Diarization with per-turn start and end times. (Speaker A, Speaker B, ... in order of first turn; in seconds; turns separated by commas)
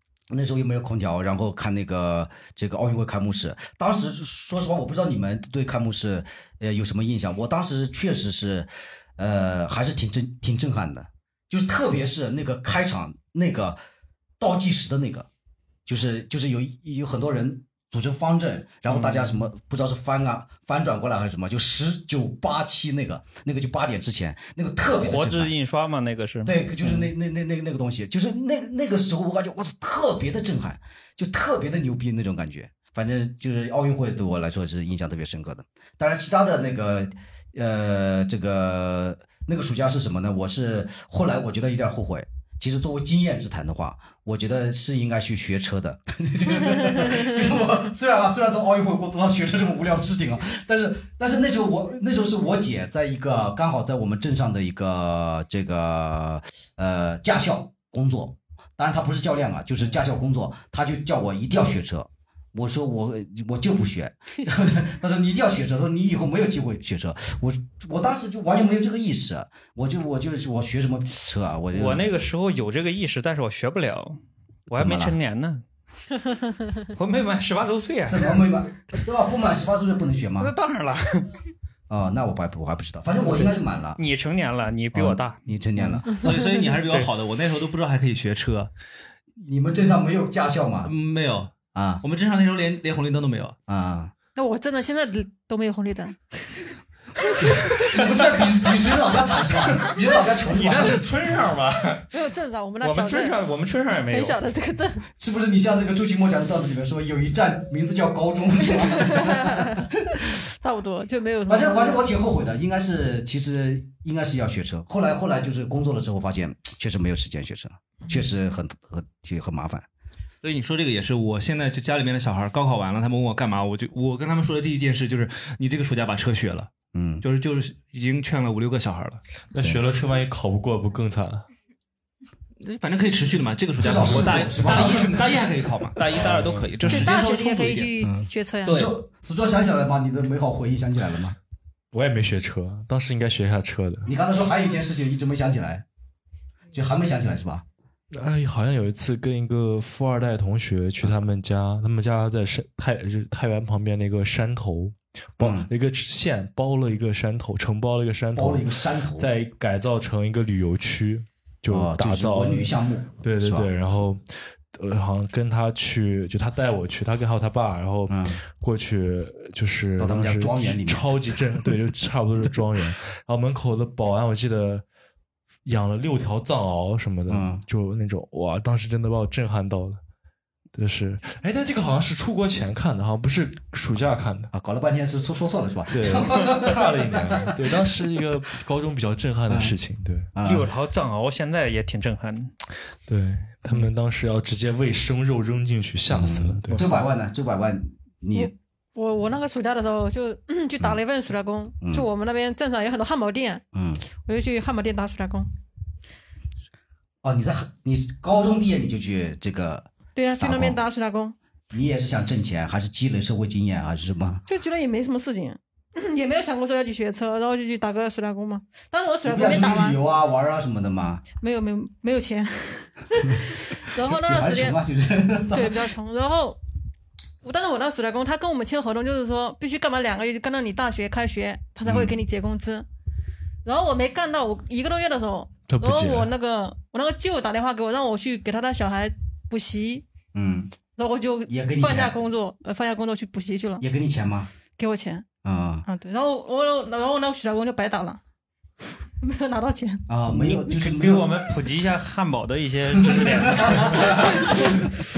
Speaker A: 0.3-13.8, Speaker A: 14.4-15.3, Speaker A: 15.9-25.5, Speaker B: 24.9-26.5, Speaker A: 26.4-72.1, Speaker B: 71.7-75.6, Speaker A: 74.7-75.2, Speaker B: 76.9-78.4, Speaker A: 78.1-80.5, Speaker B: 80.4-81.3, Speaker A: 81.9-84.0, Speaker B: 84.0-85.4, Speaker A: 84.9-86.2, Speaker C: 85.8-88.7, Speaker D: 86.1-86.7, Speaker A: 89.4-90.9, Speaker C: 90.8-91.5, Speaker A: 91.7-92.0, Speaker C: 92.0-93.5, Speaker A: 93.7-94.1, Speaker D: 94.4-96.4, Speaker A: 97.8-101.0, Speaker B: 100.5-102.1, Speaker D: 102.1-103.4, Speaker B: 102.8-104.4, Speaker D: 104.1-105.0, Speaker A: 105.2-109.7, Speaker D: 108.8-112.0, Speaker A: 111.5-119.9, Speaker C: 120.4-126.7, Speaker A: 126.9-127.2, Speaker C: 127.2-129.2, Speaker E: 129.5-131.5, Speaker A: 129.6-129.8, Speaker C: 132.6-137.9, Speaker A: 133.8-135.3, Speaker E: 134.0-134.3, Speaker E: 136.1-137.1, Speaker D: 136.9-138.9, Speaker A: 138.0-141.4, Speaker C: 138.6-138.9, Speaker E: 141.9-144.1, Speaker A: 144.1-145.8, Speaker A: 146.7-147.6, Speaker E: 148.1-174.8, Speaker A: 155.4-155.7, Speaker A: 158.3-159.3, Speaker A: 161.7-163.7, Speaker A: 168.1-168.4, Speaker A: 170.0-171.8, Speaker E: 175.6-180.0, Speaker A: 177.3-177.6, Speaker E: 180.7-184.5, Speaker A: 184.5-187.7, Speaker E: 185.9-190.3, Speaker A: 189.5-189.8, Speaker A: 190.3-190.7, Speaker B: 190.4-192.5, Speaker E: 193.1-196.9, Speaker A: 196.1-198.5, Speaker D: 198.3-203.6, Speaker A: 201.8-202.1, Speaker A: 203.7-204.0, Speaker D: 204.2-205.5, Speaker A: 207.2-210.8, Speaker D: 210.1-211.3, Speaker A: 211.7-214.4, Speaker D: 214.5-220.0, Speaker A: 219.2-221.2, Speaker D: 221.4-224.8, Speaker A: 224.0-225.9, Speaker D: 225.5-226.6, Speaker D: 227.4-232.9, Speaker A: 231.8-232.2, Speaker D: 233.6-240.1, Speaker E: 235.7-236.3, Speaker A: 240.3-240.7, Speaker D: 240.9-243.8, Speaker A: 241.5-242.2, Speaker A: 243.8-244.5, Speaker D: 244.8-245.3, Speaker A: 245.4-245.8, Speaker D: 245.9-248.2, Speaker D: 249.2-250.1, Speaker A: 250.1-251.4, Speaker B: 250.3-254.5, Speaker A: 253.0-254.2, Speaker D: 254.4-254.8